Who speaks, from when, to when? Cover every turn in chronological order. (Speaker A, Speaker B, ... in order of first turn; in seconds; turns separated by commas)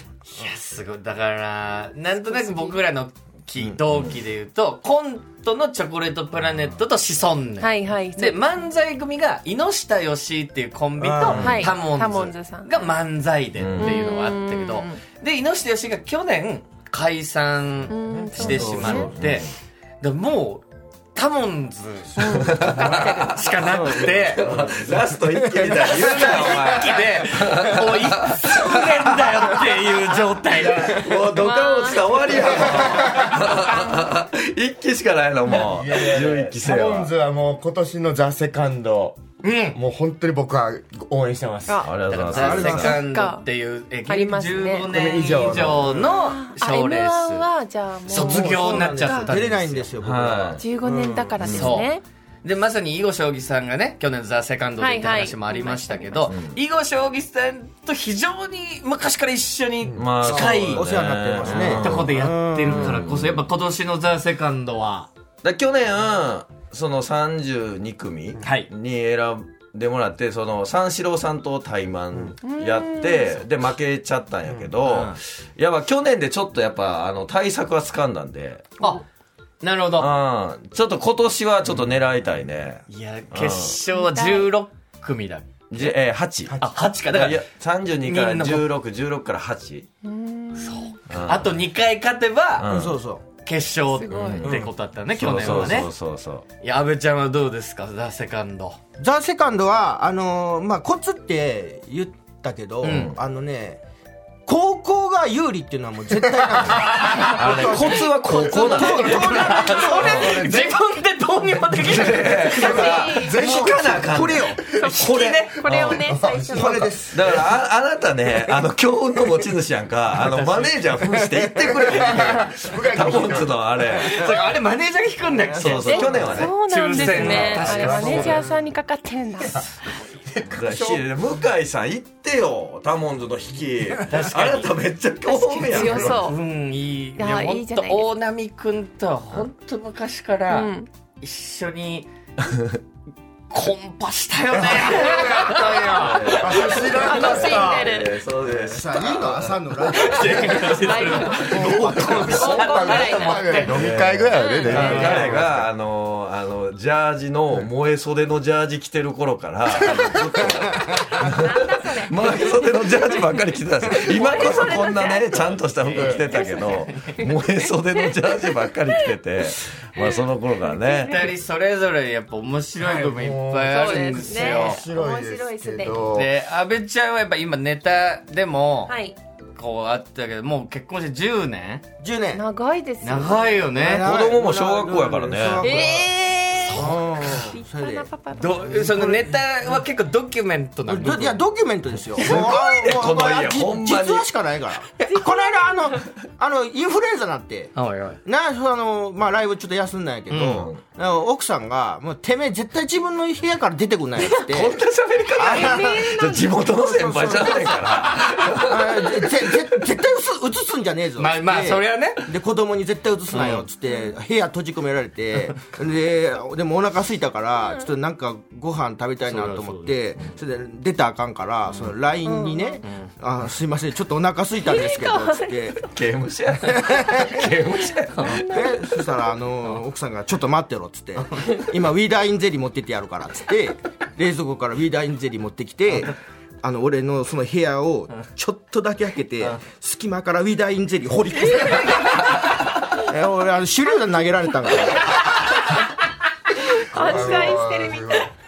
Speaker A: 0.3-19.5, Speaker B: 2.2-2.8, Speaker B: 7.6-8.6, Speaker C: 11.0-11.7, Speaker D: 11.2-11.8, Speaker B: 11.3-12.8, Speaker D: 13.6-14.0, Speaker B: 13.8-15.0, Speaker B: 17.9-19.1, Speaker D: 18.4-19.4, Speaker C: 18.6-18.9, Speaker A: 20.0-20.6, Speaker A: 21.1-24.4, Speaker B: 22.1-23.4, Speaker D: 22.3-29.0, Speaker C: 25.6-26.4, Speaker A: 25.7-31.0, Speaker E: 30.6-30.9, Speaker D: 30.9-37.1, Speaker B: 31.2-33.8, Speaker E: 32.3-33.4, Speaker E: 35.5-39.2, Speaker A: 39.4-39.8, Speaker E: 39.7-41.9, Speaker D: 41.8-43.0, Speaker A: 42.1-47.5, Speaker C: 42.3-43.0, Speaker B: 42.6-43.5, Speaker B: 44.1-44.9, Speaker E: 44.9-46.0, Speaker B: 46.0-49.3, Speaker A: 48.0-49.9, Speaker C: 48.1-50.7, Speaker D: 50.0-50.6, Speaker B: 50.6-52.0, Speaker A: 51.4-51.9, Speaker D: 51.4-51.8, Speaker A: 52.4-60.9, Speaker B: 54.8-56.3, Speaker D: 56.3-56.6, Speaker E: 59.8-60.1, Speaker D: 59.9-62.1, Speaker C: 60.2-62.9, Speaker A: 61.4-65.1, Speaker D: 62.6-63.4, Speaker D: 65.4-78.7, Speaker A: 68.4-68.7, Speaker B: 72.4-73.4, Speaker A: 74.8-75.2, Speaker A: 79.6-80.1, Speaker D: 80.0-83.8, Speaker A: 82.9-85.5, Speaker B: 83.9-84.5, Speaker D: 85.7-86.6, Speaker A: 86.6-87.4, Speaker D: 87.1-89.9, Speaker C: 88.0-88.7, Speaker B: 90.0-91.0, Speaker A: 90.6-92.7, Speaker D: 91.1-91.6, Speaker D: 92.6-92.9, Speaker C: 92.7-93.2, Speaker A: 93.4-95.9, Speaker B: 93.8-94.5, Speaker D: 94.1-96.4, Speaker C: 94.4-94.7, Speaker A: 96.6-98.8, Speaker C: 99.0-103.8, Speaker D: 102.8-103.2, Speaker A: 102.8-103.1, Speaker C: 104.5-110.3, Speaker D: 107.2-110.5, Speaker A: 107.5-107.7, Speaker E: 108.2-110.8, Speaker A: 109.2-113.3, Speaker D: 111.8-114.5, Speaker B: 112.5-113.4, Speaker E: 113.1-117.5, Speaker C: 113.3-114.6, Speaker B: 114.6-117.0, Speaker A: 114.9-115.9, Speaker D: 115.7-116.0, Speaker C: 116.5-117.4, Speaker D: 117.1-124.5, Speaker A: 120.3-120.7, Speaker E: 121.1-123.6, Speaker A: 124.0-128.4, Speaker D: 125.6-127.1, Speaker C: 125.6-126.2, Speaker B: 125.7-129.6, Speaker E: 127.0-128.4, Speaker E: 129.4-131.1, Speaker D: 130.5-136.2, Speaker A: 134.1-134.7, Speaker B: 135.2-136.4, Speaker A: 135.7-142.1, Speaker B: 137.2-138.1, Speaker B: 140.5-140.9, Speaker A: 143.5-146.8, Speaker E: 144.7-145.2, Speaker E: 145.8-147.9, Speaker D: 145.9-149.6, Speaker B: 146.8-148.2, Speaker C: 148.4-150.4, Speaker A: 149.9-153.8, Speaker B: 150.4-151.7, Speaker D: 151.2-152.8, Speaker E: 151.5-155.7, Speaker C: 151.7-152.4, Speaker B: 152.3-153.6, Speaker D: 153.7-171.3, Speaker B: 154.3-155.2, Speaker A: 154.7-155.3, Speaker B: 161.2-163.4, Speaker B: 164.0-169.1, Speaker A: 165.8-167.1, Speaker B: 170.0-171.3, Speaker A: 171.1-174.8, Speaker E: 172.8-176.3, Speaker B: 173.7-176.1, Speaker A: 176.0-178.9, Speaker B: 178.9-179.2, Speaker A: 179.6-181.8, Speaker C: 182.0-182.4, Speaker B: 182.3-183.6, Speaker A: 183.0-184.1, Speaker C: 183.7-186.2, Speaker D: 183.9-185.7, Speaker B: 185.6-188.8, Speaker A: 186.7-187.1, Speaker C: 186.7-188.1, Speaker A: 188.3-191.4, Speaker C: 188.7-189.8, Speaker C: 190.9-197.7, Speaker D: 192.1-194.3, Speaker B: 195.0-196.1, Speaker A: 197.7-198.2, Speaker C: 198.2-204.8, Speaker A: 200.3-200.6, Speaker D: 200.4-200.8, Speaker D: 204.2-209.2, Speaker C: 205.3-208.1, Speaker B: 205.4-206.5, Speaker C: 208.6-225.8, Speaker A: 211.2-212.3, Speaker A: 213.3-213.7, Speaker B: 213.9-214.1, Speaker B: 217.6-217.9, Speaker A: 219.2-220.0, Speaker B: 222.2-222.8, Speaker A: 222.8-223.1, Speaker B: 224.6-225.8, Speaker D: 225.8-228.7, Speaker C: 226.6-227.4, Speaker B: 226.9-229.0, Speaker C: 228.4-245.2, Speaker B: 246.7-248.3, Speaker E: 246.9-248.3, Speaker A: 247.1-247.5